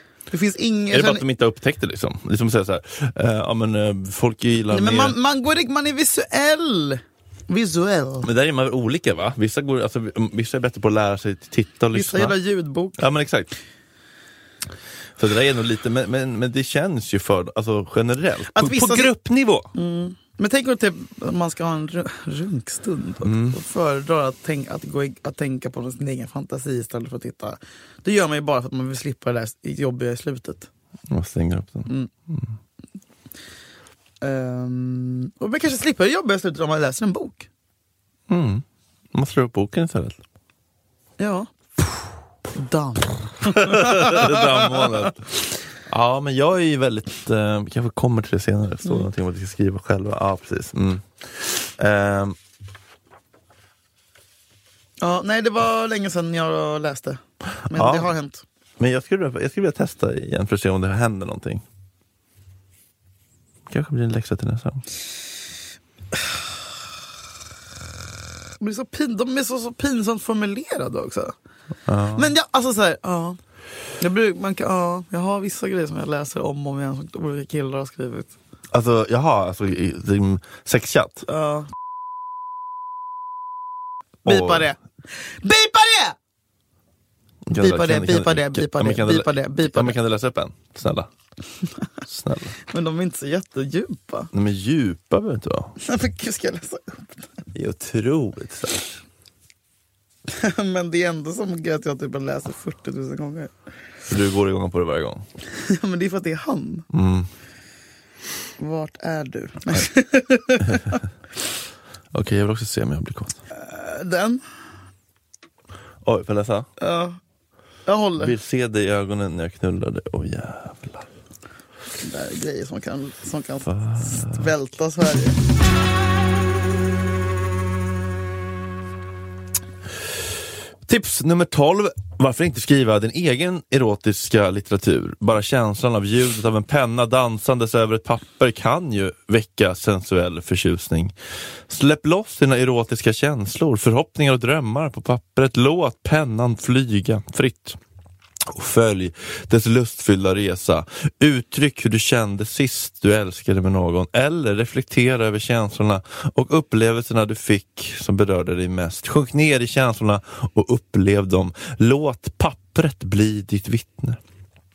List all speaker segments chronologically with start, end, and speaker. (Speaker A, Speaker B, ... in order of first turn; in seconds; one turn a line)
Speaker A: 0.3-1.2
Speaker B: 0.9-5.2
Speaker A: 4.7-8.3
Speaker B: 8.2-12.4
Speaker A: 11.9-13.1
Speaker B: 13.0-13.5
Speaker B: 15.2-19.7
Speaker A: 18.5-19.1
Speaker A: 19.7-30.7
Speaker B: 23.2-23.6
Speaker B: 31.1-32.5
Speaker A: 34.2-37.5
Speaker B: 38.3-40.2
Speaker A: 41.2-42.0
Speaker A: 42.5-44.9
Speaker B: 43.5-52.4
Speaker A: 55.0-58.4
Speaker B: 57.7-58.1
Speaker B: 58.8-61.6
Speaker B: 63.7-64.8
Speaker A: 68.6-71.3
Speaker B: 71.9-72.3
Speaker A: 72.1-73.4
Speaker A: 74.0-78.3
Speaker B: 78.7-81.2
Speaker A: 81.3-81.7
Speaker B: 84.2-84.7
Speaker A: 84.2-86.2
Speaker B: 87.5-91.1
Speaker A: 87.5-90.0
Speaker B: 92.1-92.6
Speaker A: 92.7-94.3
Speaker B: 94.3-95.8
Speaker A: 95.8-97.4
Speaker B: 97.5-99.0
Speaker A: 100.3-103.5
Speaker B: 104.1-105.2
Speaker A: 105.5-106.9
Speaker B: 106.9-107.3
Speaker A: 108.6-111.0
Speaker B: 110.6-111.0
Speaker B: 112.1-113.4
Speaker A: 113.5-114.4
Speaker B: 116.0-116.7
Speaker A: 116.8-117.2
Speaker A: 117.9-118.4
Speaker B: 118.2-121.1
Speaker A: 122.0-125.4
Speaker B: 123.7-124.5
Speaker B: 130.9-141.1
Speaker B: 141.7-147.8
Speaker B: 148.5-164.2